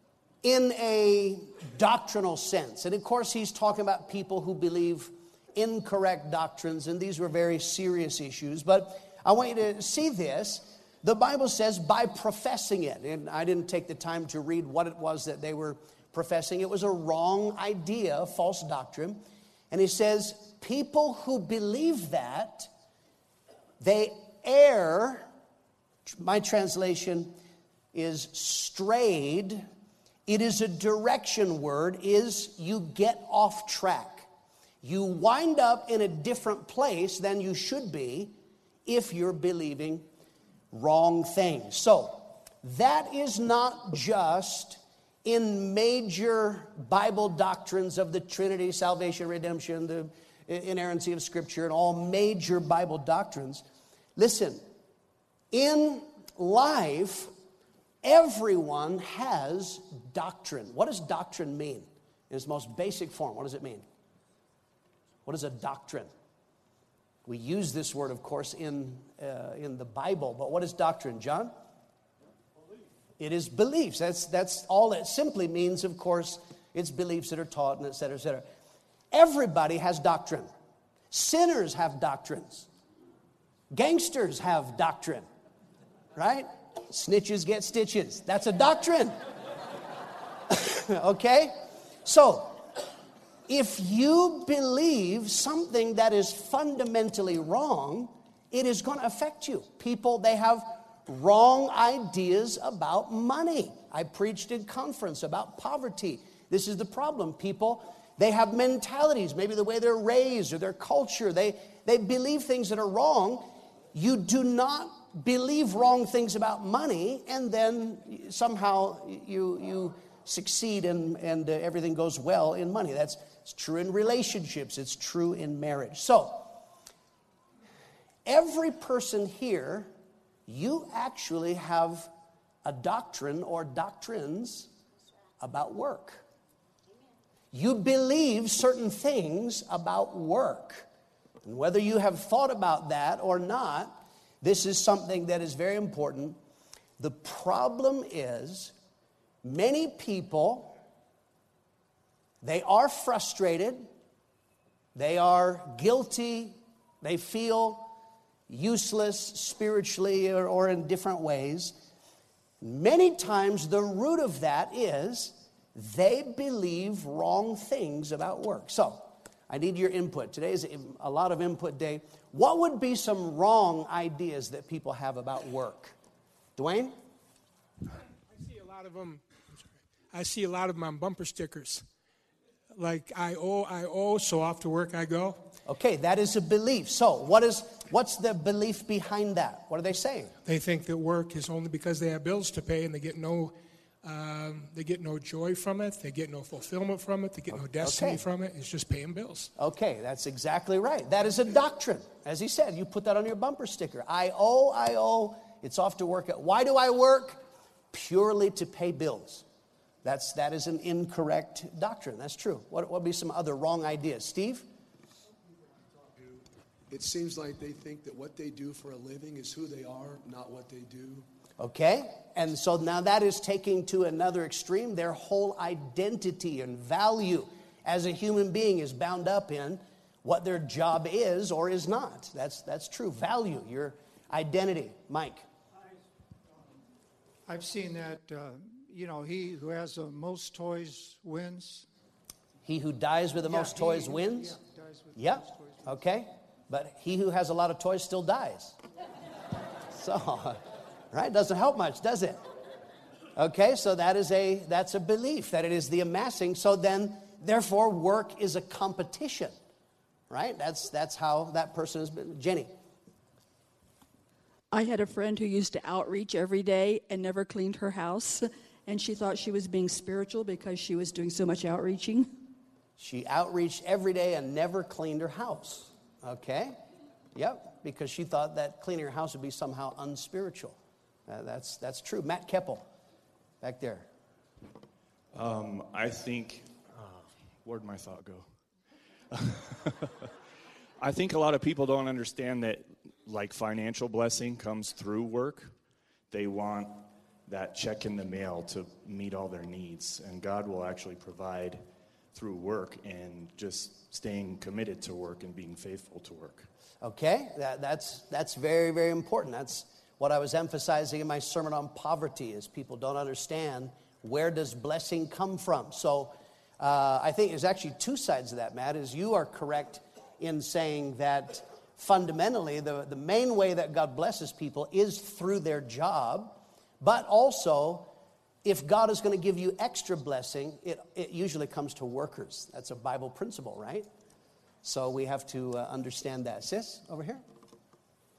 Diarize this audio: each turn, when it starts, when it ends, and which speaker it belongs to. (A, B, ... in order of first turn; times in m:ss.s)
0:00.4-0:22.7 A
0:23.8-0:25.3 A
0:26.1-0:27.3 A
0:27.9-0:29.6 A
0:30.2-0:34.3 A
0:34.8-0:38.3 A
0:38.8-0:40.0 A
0:40.7-0:53.6 A
0:54.2-0:54.6 A
0:55.5-0:57.3 A
0:58.0-1:03.8 A
1:05.2-1:06.1 A
1:07.2-1:11.5 A
1:13.2-1:18.4 A
1:19.1-1:20.5 A
1:21.1-1:22.7 A
1:23.7-1:25.2 A
1:26.1-1:29.2 A
1:30.5-1:32.6 A
1:33.5-2:06.6 A
2:08.2-2:09.9 A
2:10.5-2:12.1 A
2:12.6-2:14.7 A
2:15.4-2:16.2 A
2:17.5-2:20.9 A
2:21.4-2:26.4 A
2:27.0-2:28.7 A
2:29.4-2:30.8 A
2:32.4-2:33.9 A
2:34.9-2:37.9 A
2:38.5-2:41.8 A
2:42.6-2:56.0 A
2:56.6-2:57.0 A
2:58.3-3:01.9 B
3:02.7-3:05.4 B
3:05.6-3:10.3 A
3:10.4-3:19.5 B
3:17.8-3:18.2 A
3:19.6-3:29.4 A
3:30.0-3:34.6 A
3:36.0-3:41.2 C
3:41.6-3:55.4 A
3:57.4-4:01.8 D
4:02.6-4:04.6 A
4:03.5-4:05.8 D
4:05.1-4:08.8 A
4:09.9-4:10.6 A
4:11.1-4:12.4 A
4:13.4-4:19.6 A
4:20.3-4:22.7 A
4:24.7-4:32.4 E
4:33.0-4:36.8 A
4:37.3-4:42.8 A
4:43.6-4:44.1 A
4:45.3-4:48.6 F
4:49.3-4:50.3 F
4:51.0-4:55.8 F
4:56.3-5:06.7 F
5:07.0-5:28.1 A
5:28.6-5:34.1 A
5:34.8-5:37.4 A